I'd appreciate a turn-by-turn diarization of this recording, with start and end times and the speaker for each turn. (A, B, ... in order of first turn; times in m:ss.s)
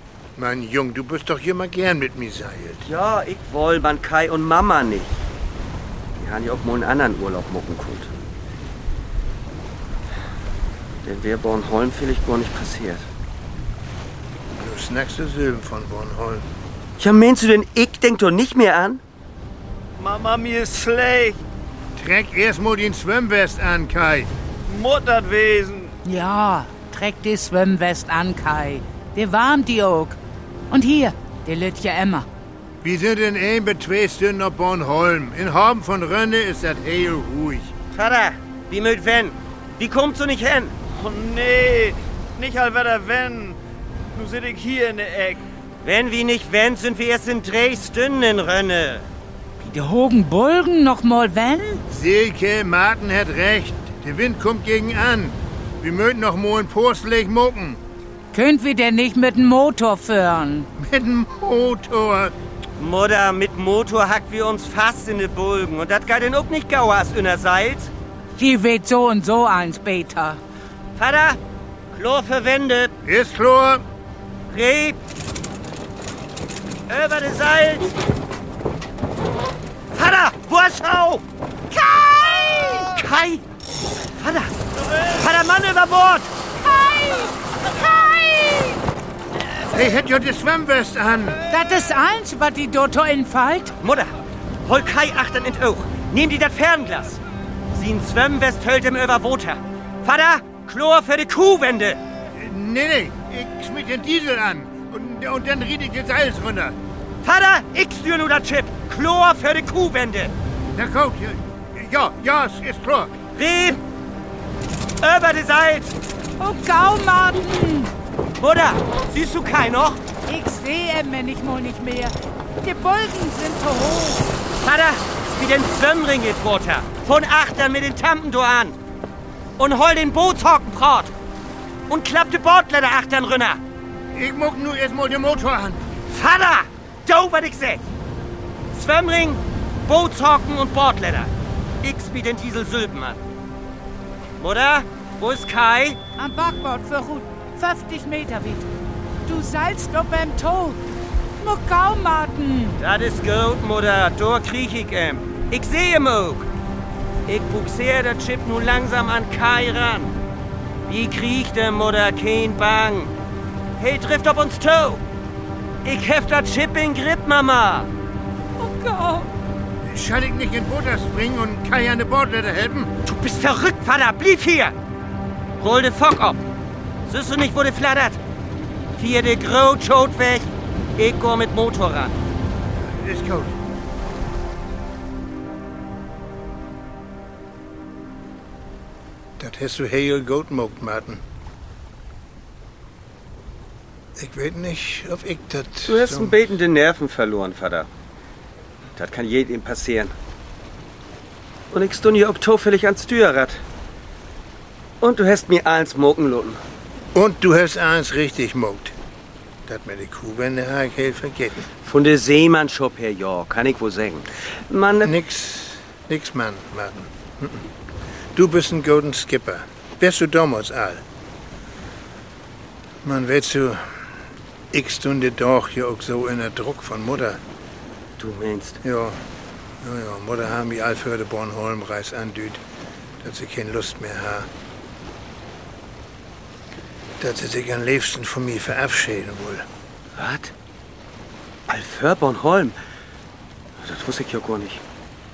0:00.4-0:02.9 A
0:02.8-0:05.2 B
0:06.2-0:08.1 B
0:11.0-0:13.1 B
0:14.6-0:16.5 A
0:17.0-0:19.0 B
0:20.0-0:21.4 C
0:22.0-0:24.3 A
0:24.7-0:26.0 C
0:26.0-0:30.2 D
0:30.7-0:32.3 D
0:32.8-0:37.7 A
0:37.9-0:40.7 B
0:40.9-0:43.6 C
0:44.1-0:45.4 C
0:45.8-0:49.1 B
0:49.6-0:51.8 D
0:51.9-0:57.8 A
0:58.3-1:00.7 D
1:00.8-1:02.3 A
1:02.8-1:07.9 B
1:08.4-1:10.4 D
1:11.0-1:11.4 B
1:11.9-1:12.9 B
1:13.0-1:13.8 A
1:14.5-1:15.0 B
1:16.9-1:18.0 B
1:19.9-1:21.2 B
1:21.7-1:22.9 D
1:22.7-1:23.4 B
1:24.2-1:26.3 B
1:26.6-1:28.8 D
1:29.7-1:31.4 A
1:31.5-1:33.8 D
1:33.8-1:34.1 B
1:34.6-1:37.2 B
1:37.7-1:42.0 B
1:42.3-1:46.8 A
1:47.2-1:50.3 B
1:50.7-1:53.2 A
1:53.3-1:53.8 B
1:55.0-1:56.0 B
1:56.4-1:57.9 D
1:58.4-2:00.0 B
2:00.3-2:04.3 D
2:04.6-2:08.8 B
2:09.6-2:11.1 B
2:11.9-2:13.6 B
2:14.1-2:15.8 A
2:16.1-2:17.9 B
2:18.7-2:21.3 B
2:21.8-2:23.2 B
2:24.4-2:26.0 B
2:26.2-2:28.7 D
2:29.2-2:30.8 D
2:31.4-2:32.8 D
2:32.8-2:36.5 B
2:37.2-2:40.1 B
2:40.8-2:43.1 B
2:43.8-2:45.0 B
2:45.8-2:47.9 B
2:48.6-2:49.2 B
2:49.8-2:52.9 A
2:53.0-2:54.7 B
2:55.6-2:56.4 B
2:57.1-2:58.2 B
2:59.0-3:02.2 B
3:02.7-3:03.6 A
3:09.4-3:11.2 A
3:14.2-3:16.4 A
3:15.9-3:17.9 B
3:19.0-3:20.1 B
3:21.7-3:23.6 B
3:25.0-3:26.6 B
3:27.1-3:28.9 A
3:29.6-3:31.7 A
3:31.8-3:35.1 B
3:35.0-3:37.7 A
3:38.3-3:41.0 A
3:43.0-3:44.1 A
3:44.7-3:47.4 A
3:48.2-3:48.8 B
3:48.8-3:49.2 A
3:49.8-3:52.6 A
3:53.2-3:54.5 A
3:57.2-3:59.7 A
4:00.2-4:00.5 B
4:01.7-4:02.8 B
4:03.8-4:04.8 B